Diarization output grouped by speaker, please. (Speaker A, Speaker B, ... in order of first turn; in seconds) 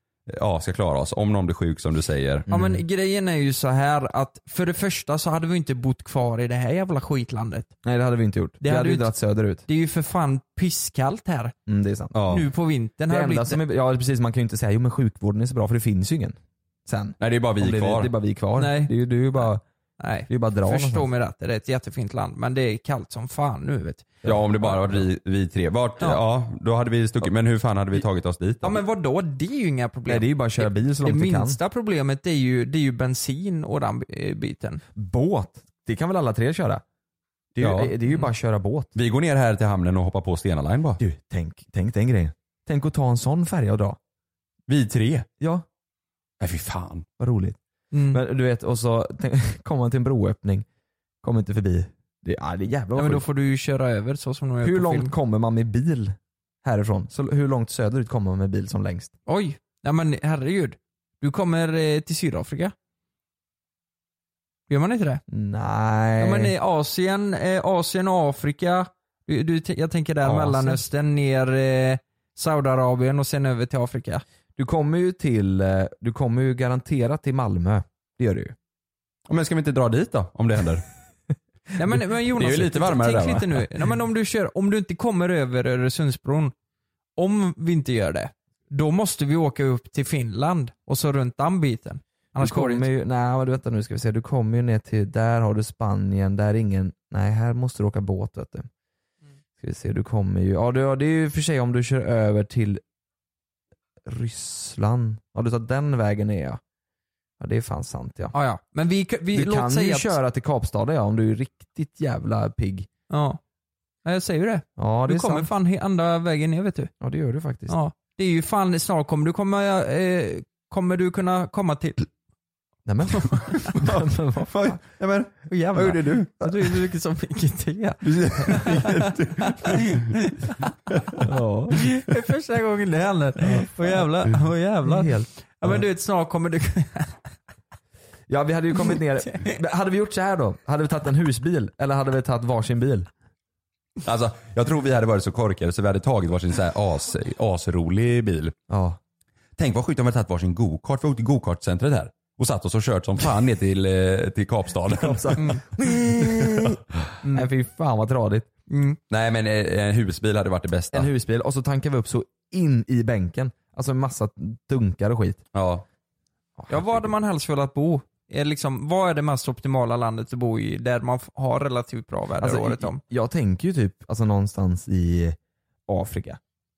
Speaker A: 0.3-2.5, 12.1-12.5, 17.2-18.1, 24.2-28.8, 37.6-37.9, 38.9-41.0, 44.7-45.2, 46.4-47.1, 70.3-70.7, 79.3-80.9, 82.4-83.6, 124.5-126.3, 128.0-130.1, 144.1-148.5, 149.6-155.4, 159.1-161.1, 165.5-165.8
Speaker B: 2.5-2.8, 7.8-9.6, 11.7-12.2, 13.1-19.6, 20.3-21.1, 24.2-25.0, 30.1-31.6, 35.0-36.8, 37.5-38.9, 41.0-44.0, 45.4-45.6, 47.2-47.6, 48.1-50.6, 51.2-53.2, 54.6-59.1, 65.3-66.5, 74.6-78.5, 92.4-98.7, 99.6-102.8, 104.0-106.6, 107.4-108.3, 109.3-112.9, 114.8-115.5, 117.0-117.8, 122.9-124.8, 131.2-131.8, 134.8-135.8, 138.3-143.1, 148.7-149.0, 154.9-158.5, 160.9-165.4, 166.6-167.1, 172.4-175.4, 175.9-176.4
Speaker C: 2.5-7.7, 8.6-9.1, 9.7-11.5, 12.3-13.6, 18.6-18.9, 20.0-24.1, 28.6-34.8, 47.9-48.2, 53.0-55.1, 59.3-62.7, 64.7-65.2, 66.2-74.2, 81.8-86.5, 87.2-92.9, 108.3-110.2, 113.1-113.4, 114.0-116.9, 117.7-122.1, 123.2-123.6, 125.5-130.7, 131.8-137.3, 138.9-139.6, 158.7-159.0, 166.7-173.0